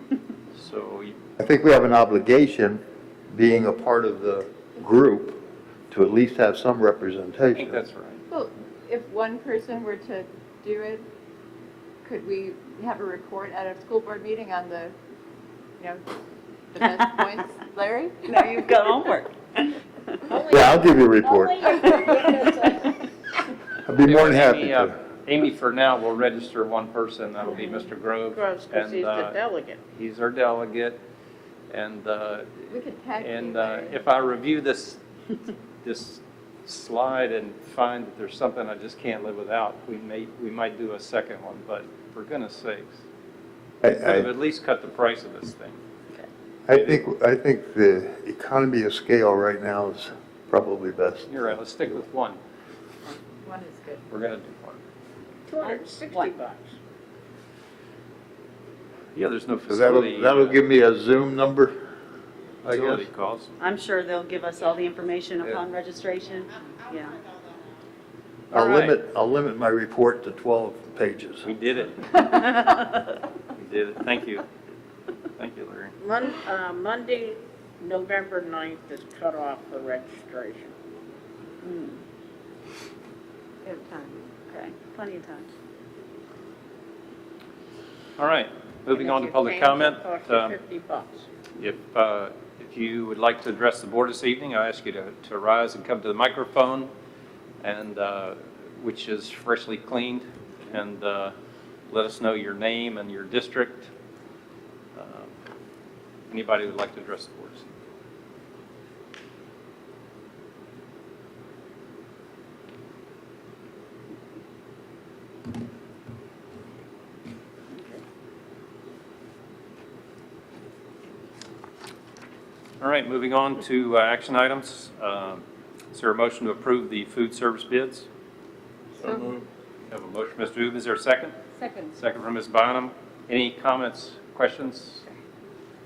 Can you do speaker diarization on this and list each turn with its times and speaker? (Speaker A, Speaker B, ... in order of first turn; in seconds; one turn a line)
Speaker A: 0.5-1.2
Speaker B: 1.4-7.8
Speaker A: 7.5-8.2
Speaker C: 8.3-11.1
Speaker C: 12.0-14.9
Speaker C: 15.8-16.0
Speaker C: 16.7-18.5
Speaker D: 16.9-17.2
Speaker D: 18.3-19.8
Speaker E: 20.3-23.0
Speaker B: 20.5-21.9
Speaker D: 21.8-22.2
Speaker B: 23.8-24.9
Speaker A: 24.0-29.3
Speaker D: 27.5-27.8
Speaker E: 28.3-29.8
Speaker A: 29.9-31.0
Speaker A: 31.7-35.0
Speaker C: 32.7-34.0
Speaker A: 35.8-43.0
Speaker B: 43.8-44.3
Speaker A: 43.9-45.8
Speaker B: 46.7-51.5
Speaker A: 46.7-47.0
Speaker A: 51.3-52.4
Speaker C: 53.0-54.0
Speaker A: 54.1-54.8
Speaker E: 55.5-56.7
Speaker D: 55.6-56.3
Speaker A: 59.1-60.6
Speaker B: 59.7-61.8
Speaker B: 62.6-63.1
Speaker A: 62.6-63.5
Speaker D: 63.6-67.2
Speaker A: 68.5-69.0
Speaker B: 68.5-71.5
Speaker A: 71.4-72.8
Speaker D: 72.5-73.1
Speaker A: 73.5-74.4
Speaker A: 75.3-75.9
Speaker E: 76.0-80.7
Speaker D: 81.6-82.0
Speaker C: 83.6-84.3
Speaker D: 84.5-85.5
Speaker A: 88.2-90.6
Speaker E: 88.9-91.3
Speaker A: 91.6-96.9
Speaker A: 97.6-101.3
Speaker A: 101.9-103.9
Speaker A: 105.0-105.3
Speaker A: 106.3-107.7
Speaker D: 117.7-118.0
Speaker A: 122.8-128.1
Speaker A: 129.0-131.3
Speaker C: 129.0-129.3
Speaker C: 131.6-131.9
Speaker A: 131.9-135.0